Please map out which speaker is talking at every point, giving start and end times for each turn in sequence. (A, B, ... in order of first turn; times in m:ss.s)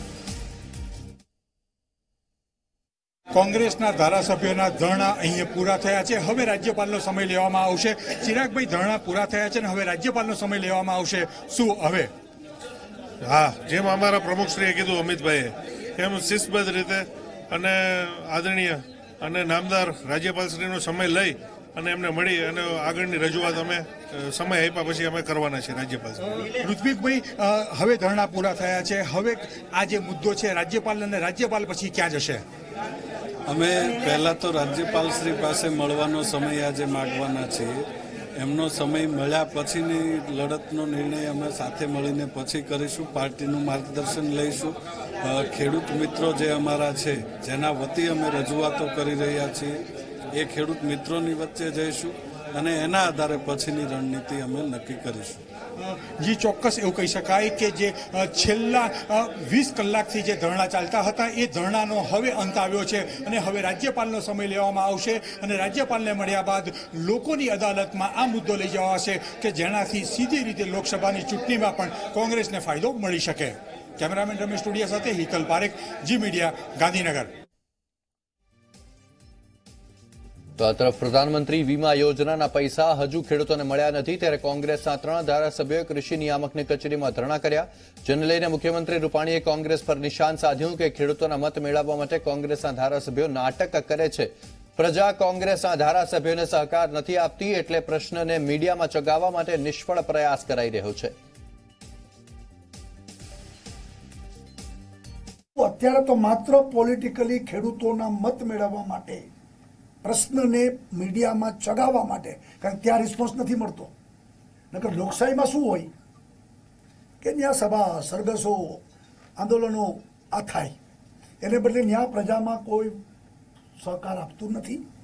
0:03.3-0:12.1 A
0:13.2-0:26.5 B
0:26.5-0:32.4 A
0:33.5-0:37.8 C
0:38.4-0:49.8 C
0:50.3-0:55.4 C
0:55.8-1:17.3 A
1:20.6-1:41.1 D
1:45.6-1:49.2 E
1:50.0-1:53.9 E
1:54.7-1:55.9 E
1:57.2-1:58.8 E
1:59.4-2:00.7 E
2:01.4-2:03.0 E
2:03.8-2:04.8 E